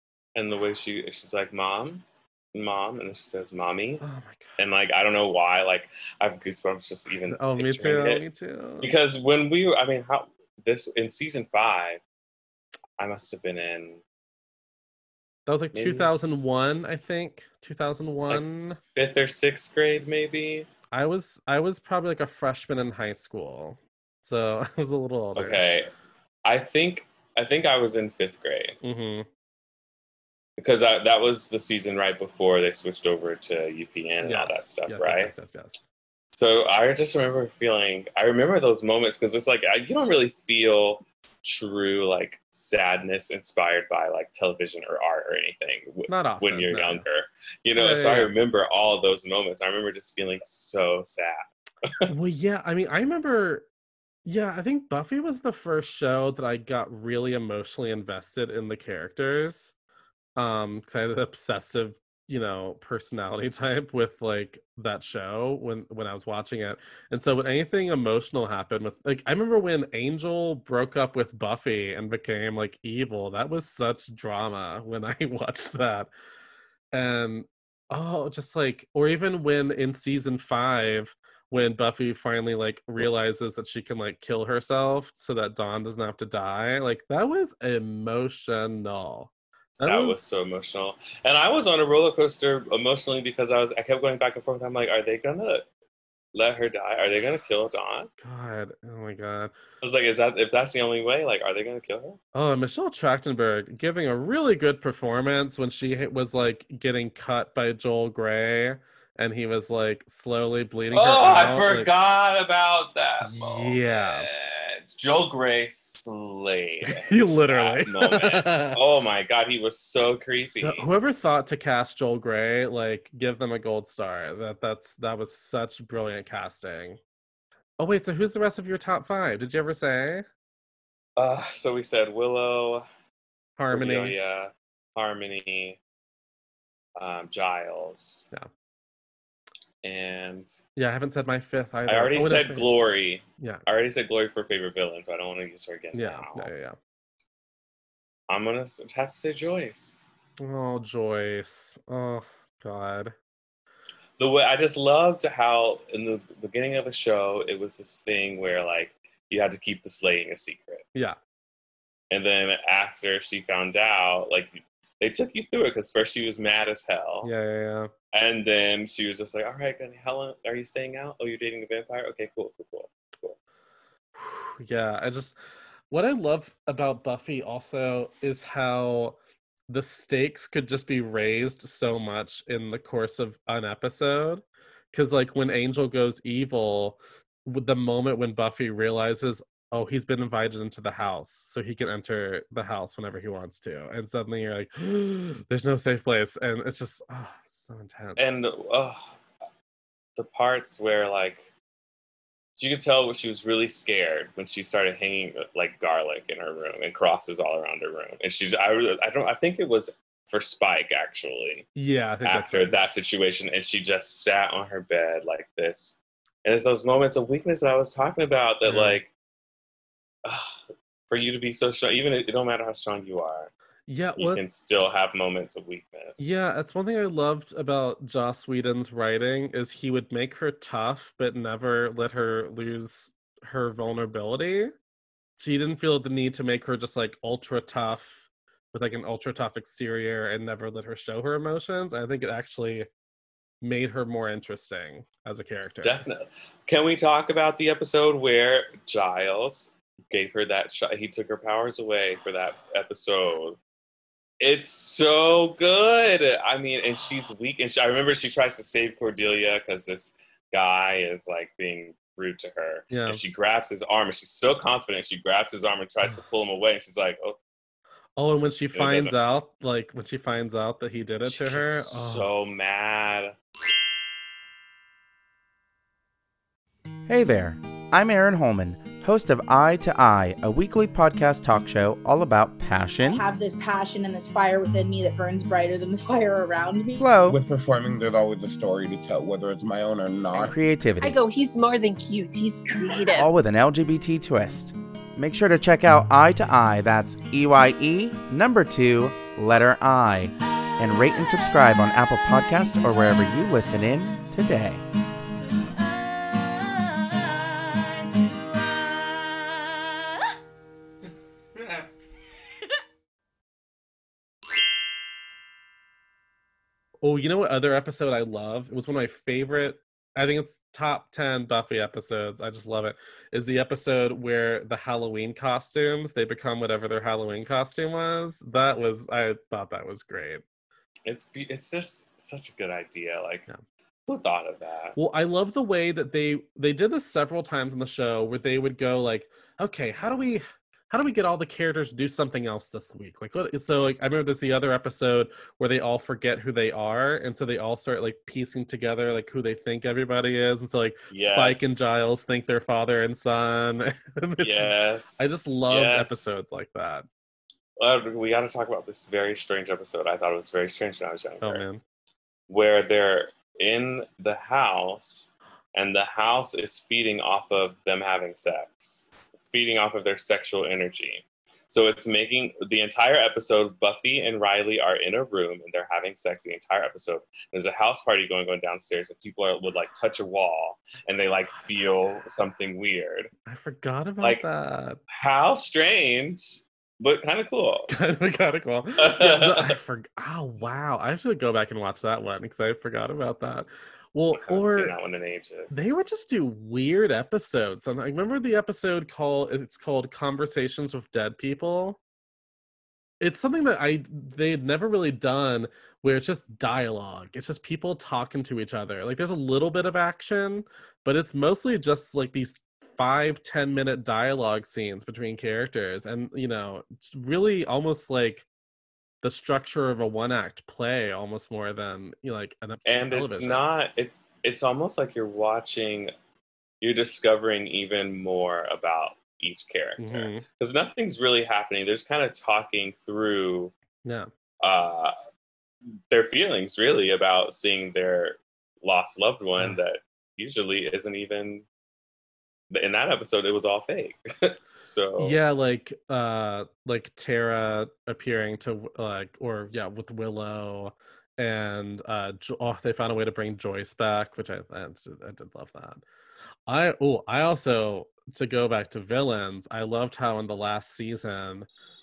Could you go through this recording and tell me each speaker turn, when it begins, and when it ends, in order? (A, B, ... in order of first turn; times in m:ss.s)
0:00.4-0:04.0 A
0:04.0-0:04.6 B
0:04.6-0:08.2 A
0:07.3-0:08.9 B
0:08.8-0:12.0 A
0:13.0-0:14.0 A
0:15.5-0:18.8 B
0:15.7-0:16.8 A
0:18.3-0:20.7 A
0:20.9-0:25.6 B
0:25.4-0:25.9 A
0:26.4-0:28.8 A
0:28.8-0:29.3 B
0:30.6-0:35.3 A
0:34.2-0:35.9 B
0:36.3-0:52.1 A
0:46.1-0:47.0 B
0:47.8-0:48.3 B
0:52.1-0:53.7 B
0:54.2-0:59.7 B
1:00.4-1:16.1 B
1:16.9-1:30.2 B
1:29.8-1:35.7 A
1:36.3-1:38.1 A
1:38.2-1:39.5 B
1:39.8-1:42.2 A
1:42.3-1:51.9 B
1:50.9-2:00.9 A
1:53.2-1:54.3 B
1:56.9-1:58.8 B
2:00.4-2:07.0 B
2:07.8-2:10.3 B
2:11.2-2:12.9 A
2:13.6-2:14.2 B
2:13.7-2:15.8 A
2:17.0-2:18.3 A
2:19.8-2:20.6 A
2:20.8-2:22.7 B
2:21.9-2:26.5 A
2:23.4-2:23.6 B
2:25.9-2:26.8 B
2:28.3-2:30.1 A
2:30.4-2:33.2 B
2:34.2-2:40.8 A
2:42.1-2:47.3 A
2:47.2-2:47.9 B
2:48.1-2:53.4 A
2:54.2-2:55.4 B
2:55.9-3:18.4 B
3:18.2-3:19.2 A
3:20.2-3:21.5 A
3:22.6-3:31.7 A
3:31.8-3:32.8 B
3:32.2-3:39.1 A
3:38.6-3:39.0 B
3:40.2-3:43.5 A
3:43.9-3:44.4 B
3:44.2-3:46.4 A
3:46.2-3:54.7 B
3:55.4-4:02.9 B
4:03.6-4:06.0 B
4:05.8-4:13.6 A
4:14.4-4:27.4 A
4:22.9-4:23.2 B
4:28.2-4:32.3 B
4:28.7-4:29.2 A
4:31.3-4:33.4 A
4:37.1-4:43.2 C
4:43.1-4:47.0 D
4:47.0-4:47.4 C
4:47.3-4:50.6 E
4:50.3-4:51.2 C
4:51.0-4:53.3 F
4:53.1-5:04.8 C
5:17.0-5:30.4 B
5:31.1-5:33.5 A
5:34.1-5:35.0 A
5:35.0-5:57.1 B
5:51.1-5:52.1 A
5:54.4-5:56.4 A
5:57.8-6:01.7 A
6:01.4-6:01.8 B
6:02.5-6:23.3 A
6:23.5-6:25.0 B
6:25.1-6:27.9 A
6:27.9-6:34.9 B
6:29.0-6:29.8 A
6:34.3-6:36.0 A
6:35.7-6:42.0 B
6:43.2-6:58.5 B
6:59.2-7:03.7 B
7:02.9-7:06.1 A
7:06.8-7:13.7 A
7:10.0-7:10.4 B
7:14.0-7:14.3 B
7:14.6-7:15.1 A
7:16.1-7:21.6 A
7:22.7-7:25.4 A
7:25.2-7:36.0 B
7:36.7-7:41.7 B